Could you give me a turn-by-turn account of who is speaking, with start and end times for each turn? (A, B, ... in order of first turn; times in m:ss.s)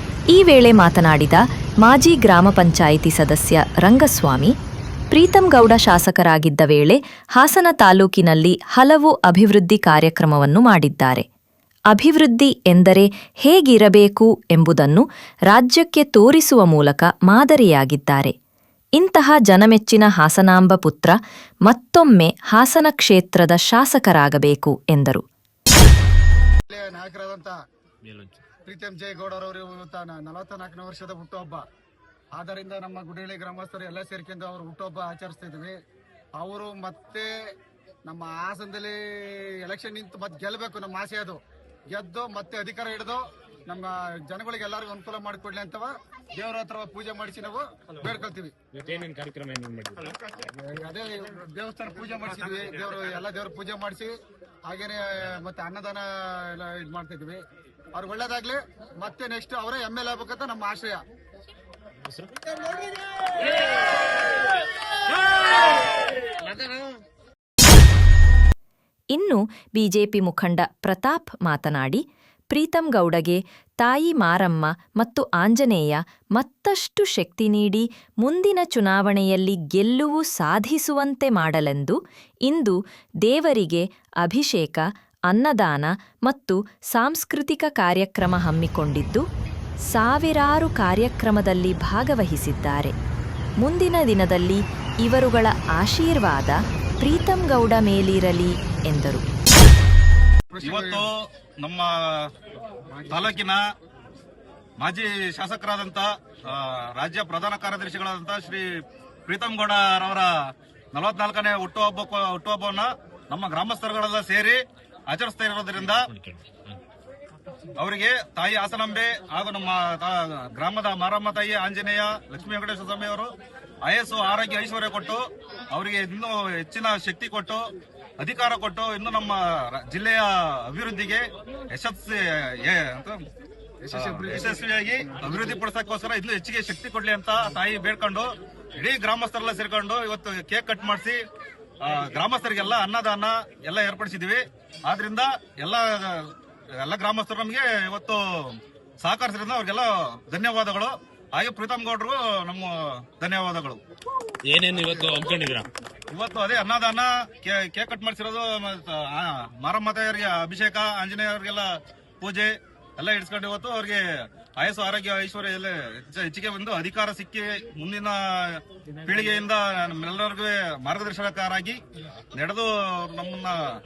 0:00.3-0:04.5 A
0:05.1-0:11.2 A
0:11.9-0:18.3 A
0:19.0-0:25.2 A
0:26.7-0:27.5 B
0:28.0-0:28.4 C
0:28.6-0:31.6 B
0:32.3-0:35.8 B
0:36.3-0:37.3 B
0:38.0-0:41.4 B
0:41.9-0:48.5 B
0:48.7-0:50.3 C
0:50.5-0:54.1 B
0:54.6-1:01.0 B
1:09.1-1:29.2 A
1:29.9-1:32.9 A
1:33.6-1:39.2 A
1:40.5-1:41.0 B
1:40.6-1:42.3 D
1:42.9-1:43.3 B
1:43.1-1:43.6 D
1:44.8-1:50.3 D
1:50.9-1:56.1 D
1:56.0-1:56.8 C
1:57.8-2:03.3 D
2:03.8-2:07.7 D
2:08.2-2:13.2 D
2:13.8-2:14.6 B
2:13.9-2:21.2 D
2:21.8-2:33.8 D
2:34.4-2:35.7 C
2:36.1-2:41.7 D
2:42.2-2:44.0 D
2:44.6-2:51.8 D
2:52.3-2:53.6 D